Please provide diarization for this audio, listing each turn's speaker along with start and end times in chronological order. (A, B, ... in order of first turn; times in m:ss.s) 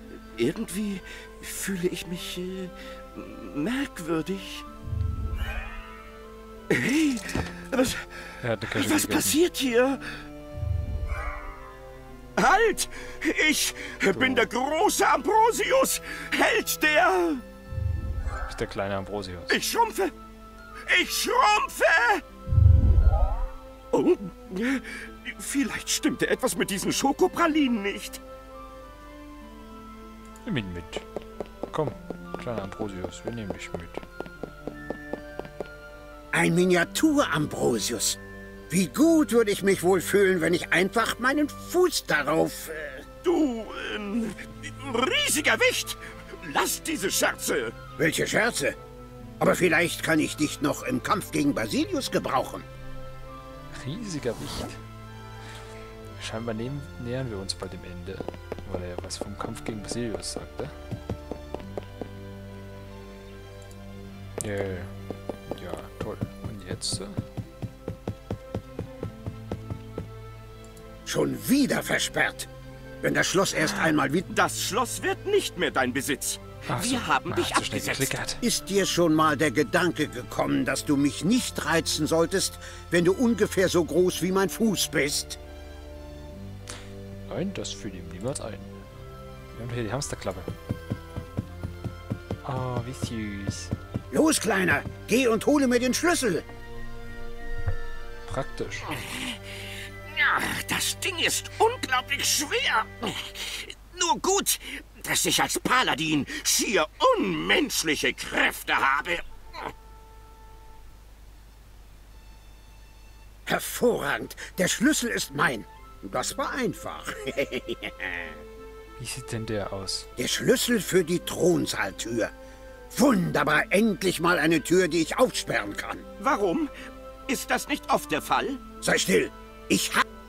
0:00.4-0:04.6 A
0:06.7-0:08.1 A
0:08.4-0:09.4 B
0:08.7-0:10.1 A
0:12.4-0:17.4 A
0:14.1-0:14.5 B
0:18.5-0:19.6 B
0:19.5-0:20.1 A
0:20.9-0:22.2 A
0:23.9-0:28.2 A
0:30.4-0:31.0 B
0:31.7-0:34.0 B
0:36.3-0:38.2 C
0:38.7-0:43.0 C
0:43.2-0:47.7 A
0:48.0-0:48.8 C
0:49.4-0:52.7 C
0:53.7-0:54.8 B
0:56.2-1:00.7 B
1:04.4-1:04.9 B
1:05.5-1:07.2 B
1:11.0-1:12.5 C
1:13.0-1:14.3 C
1:14.3-1:18.2 A
1:16.7-1:18.4 B
1:18.4-1:25.4 C
1:27.3-1:28.8 B
1:29.5-1:30.5 B
1:32.4-1:33.7 B
1:34.1-1:36.4 C
1:38.3-1:39.0 B
1:39.1-1:39.3 A
1:40.1-1:49.2 A
1:53.5-1:58.3 C
1:59.0-2:00.1 B
2:00.2-2:02.3 C
2:02.9-2:06.0 C
2:06.2-2:06.7 A
2:07.3-2:08.6 A
2:08.8-2:10.0 C